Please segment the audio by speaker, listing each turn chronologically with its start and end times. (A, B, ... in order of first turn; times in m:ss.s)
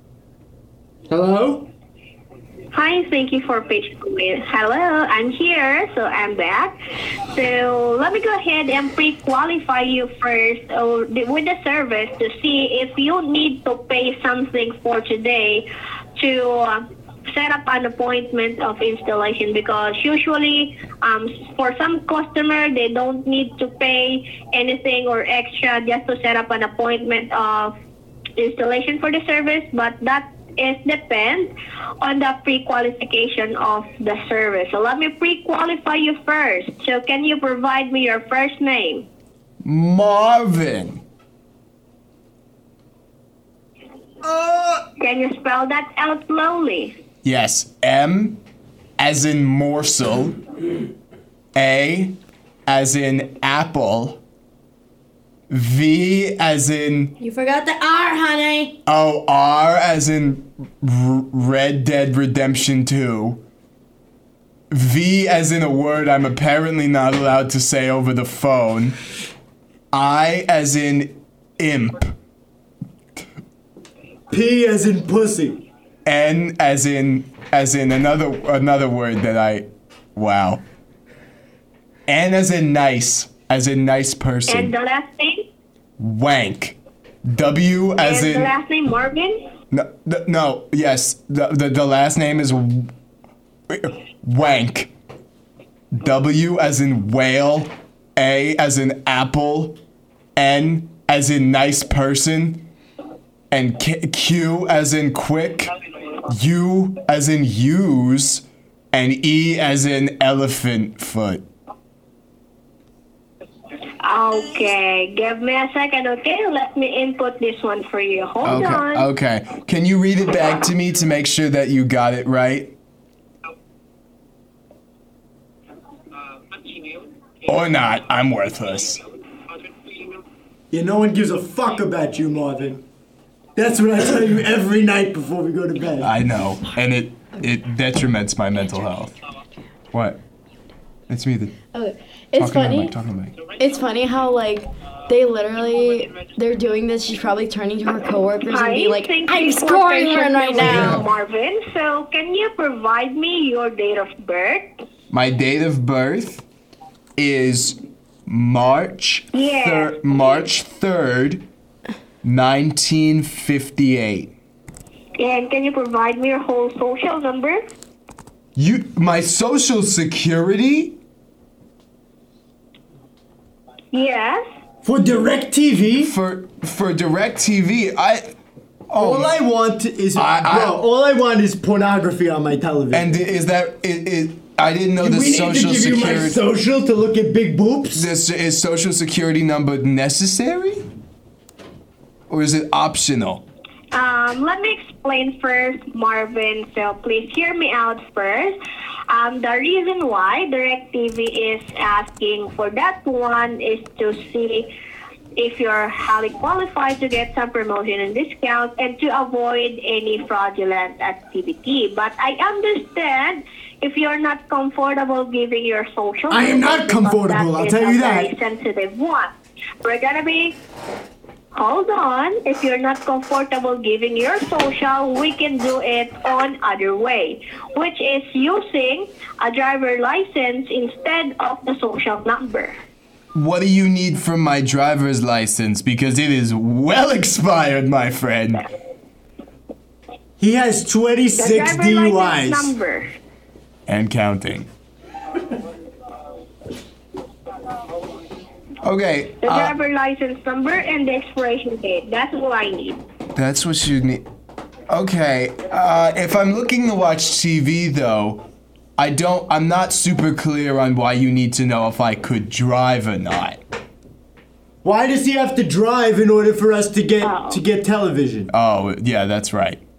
0:01.1-0:01.7 A
0:02.7-0:06.8 B
0:07.3-0:15.6 B
0:16.2-0:27.7 B
0:28.4-0:39.0 B
0:39.6-0:41.0 C
0:44.2-0:44.9 A
0:45.0-0:47.0 B
0:47.2-0:48.4 C
0:49.0-0:50.4 C
0:51.5-0:54.2 C
0:55.5-0:57.1 C
0:57.2-0:58.7 D
0:58.8-1:03.4 C
1:04.7-1:09.0 C
1:09.9-1:12.1 C
1:14.3-1:15.6 A
1:16.0-1:20.6 C
1:22.1-1:24.7 C
1:24.5-1:25.4 B
1:26.0-1:28.5 C
1:27.9-1:29.4 B
1:29.7-1:32.9 C
1:33.7-1:34.9 C
1:36.0-1:39.8 C
1:40.4-1:42.6 C
1:43.5-1:45.7 C
1:46.3-1:51.4 C
1:54.0-1:59.1 B
1:58.4-2:02.7 C
2:07.4-2:09.0 C
2:10.7-2:12.8 A
2:13.6-2:16.1 A
2:16.0-2:19.1 C
2:19.9-2:20.2 C
2:21.1-2:21.5 C
2:21.7-2:22.9 E
2:22.4-2:23.3 C
2:23.6-2:31.1 E
2:28.5-2:34.7 B
2:29.4-2:30.9 D
2:30.7-2:31.0 C
2:35.1-2:36.4 C
2:37.2-2:41.4 C
2:39.3-2:40.4 B
2:42.2-2:44.3 C
2:45.2-2:47.6 B
2:48.6-2:51.0 C
2:53.9-2:54.4 B
2:54.8-2:56.1 A
2:56.0-2:58.3 C
2:58.9-2:59.4 C
2:59.0-3:03.2 A
3:00.1-3:00.8 C
3:02.9-3:06.4 C
3:05.0-3:08.1 A
3:07.9-3:10.8 C
3:12.3-3:13.4 C
3:13.9-3:18.6 B
3:19.1-3:24.7 B
3:25.4-3:39.3 B
3:36.3-3:38.3 A
3:39.8-3:40.6 B
3:41.5-3:52.8 B
3:53.3-3:58.6 C
4:00.4-4:02.7 A
4:01.4-4:03.0 B
4:03.9-4:04.7 C
4:08.8-4:09.8 C
4:09.4-4:13.0 B
4:13.3-4:14.2 C
4:14.9-4:18.4 C
4:19.0-4:23.6 C
4:24.8-4:28.5 A
4:27.2-4:27.6 B
4:28.5-4:29.8 C